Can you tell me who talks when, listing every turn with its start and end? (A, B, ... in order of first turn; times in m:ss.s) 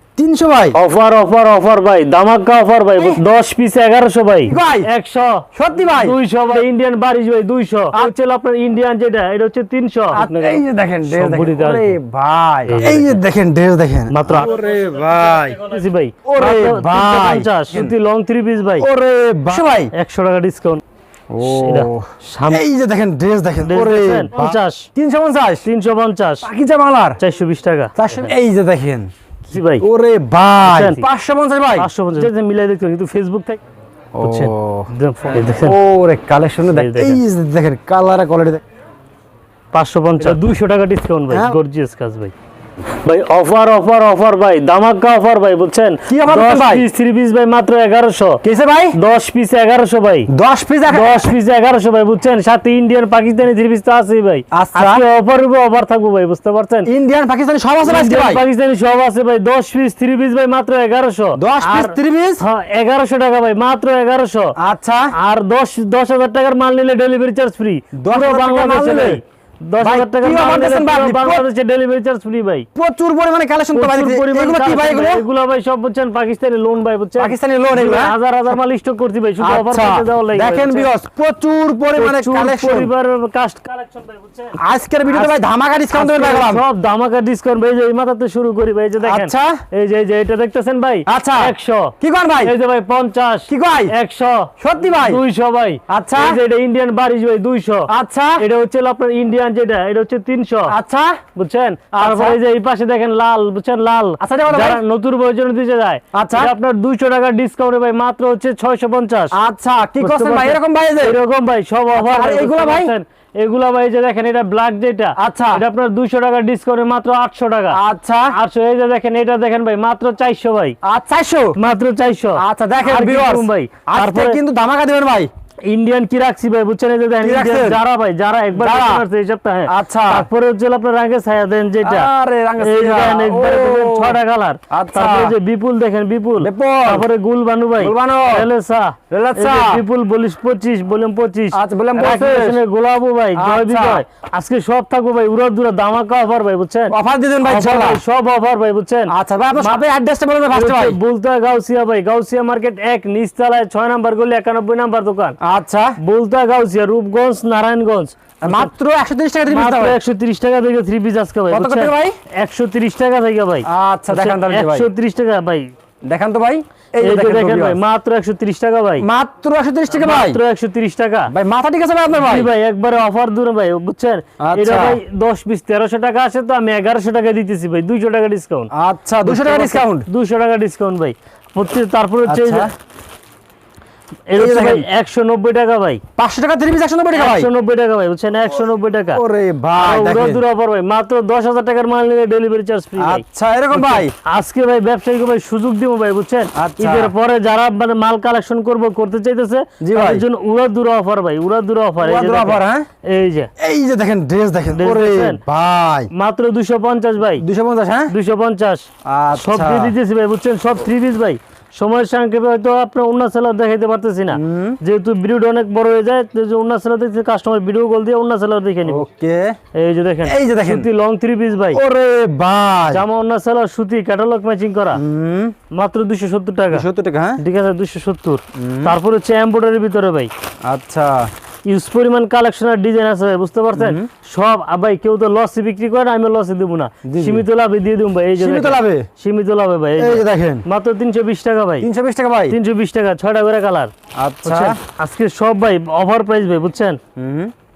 0:00.2-0:00.8 A
0:00.7-0:12.0 B
0:04.4-0:04.9 A
0:05.5-0:06.6 A
0:10.1-0:15.7 A
0:12.6-0:13.2 B
0:14.1-0:18.9 B
0:16.2-0:18.0 A
0:18.8-0:19.9 A
0:19.9-0:20.8 B
0:21.3-0:25.7 A
0:21.4-0:22.6 B
0:23.6-0:24.9 B
0:25.6-0:26.5 B
0:26.4-0:27.2 A
0:27.2-0:28.3 B
0:28.0-0:29.1 A
0:29.4-0:29.8 B
0:29.8-0:32.3 A
0:30.6-0:31.1 B
0:31.7-0:33.6 B
0:34.1-0:38.6 A
0:34.2-0:35.8 B
0:36.6-0:37.2 B
0:39.7-0:42.3 B
0:40.2-0:40.6 A
0:41.3-0:41.6 A
0:43.0-0:48.4 B
0:46.1-0:46.9 A
0:48.4-0:49.0 A
0:48.9-0:50.3 B
0:50.3-0:51.3 A
0:50.9-0:56.9 B
0:54.5-0:55.0 A
0:56.8-0:58.4 A
0:57.8-1:04.6 B
1:01.3-1:02.4 A
1:04.6-1:05.1 A
1:05.1-1:12.7 B
1:08.0-1:09.2 A
1:09.8-1:11.4 A
1:12.7-1:15.2 A
1:13.7-1:20.9 B
1:17.2-1:18.1 A
1:19.4-1:22.9 A
1:21.9-1:25.4 B
1:24.5-1:26.6 A
1:25.9-1:40.8 B
1:29.0-1:29.6 A
1:31.0-1:32.5 A
1:33.5-1:33.9 A
1:34.6-1:35.2 A
1:35.9-1:36.4 A
1:37.9-1:38.4 A
1:40.7-1:41.2 A
1:41.3-1:49.4 B
1:41.9-1:42.4 A
1:44.2-1:44.8 A
1:46.1-1:46.5 A
1:49.3-1:51.2 A
1:50.0-2:00.8 B
1:51.9-1:52.9 A
1:55.2-1:55.6 A
1:57.7-1:58.4 A
2:00.8-2:01.6 A
2:01.6-2:04.4 B
2:02.4-2:05.3 A
2:05.6-2:29.8 B
2:07.2-2:07.8 A
2:08.5-2:09.0 A
2:09.7-2:10.3 A
2:11.8-2:15.4 A
2:16.4-2:17.1 A
2:17.8-2:18.5 A
2:19.1-2:19.8 A
2:21.5-2:22.6 A
2:23.3-2:24.0 A
2:26.9-2:28.0 A
2:29.1-2:31.0 A
2:30.5-2:35.4 B
2:35.4-2:36.0 A
2:36.0-2:38.7 B
2:38.4-2:40.0 A
2:39.5-2:45.7 B
2:41.5-2:42.2 A
2:43.6-2:44.9 A
2:46.0-2:47.8 A
2:47.0-2:49.0 B
2:49.0-2:50.4 A
2:49.9-2:51.3 B
2:51.3-2:52.5 A
2:52.1-2:58.7 B
2:54.4-2:55.0 A
2:58.7-3:00.1 A
2:59.2-3:02.7 B
3:02.2-3:02.7 A
3:04.3-3:06.0 B
3:04.3-3:04.9 A
3:06.2-3:07.5 A
3:07.1-3:09.2 B
3:09.1-3:10.4 A
3:09.8-3:23.5 B
3:13.0-3:14.1 A
3:16.5-3:17.1 A
3:19.8-3:20.2 A
3:22.0-3:22.9 A
3:23.6-3:26.1 A
3:24.7-3:25.4 B
3:26.1-3:27.4 B
3:27.4-3:28.1 A
3:28.1-3:39.0 B
3:29.0-3:30.0 A
3:34.3-3:34.8 A
3:38.8-3:39.6 A
3:39.7-3:41.8 B
3:40.2-3:40.9 A
3:41.7-3:43.0 A
3:42.9-3:45.0 B
3:44.9-3:45.6 A
3:45.7-3:46.9 B
3:46.7-3:47.4 A
3:47.4-3:50.3 B
3:48.5-3:49.0 A
3:50.6-3:51.3 A
3:51.6-4:01.9 B
3:53.8-3:54.1 A
3:57.0-3:57.4 A
3:58.4-3:59.1 A
4:00.0-4:00.6 A
4:01.8-4:02.6 A
4:02.5-4:03.9 B
4:04.1-4:04.8 A
4:04.4-4:07.0 B
4:07.2-4:07.5 A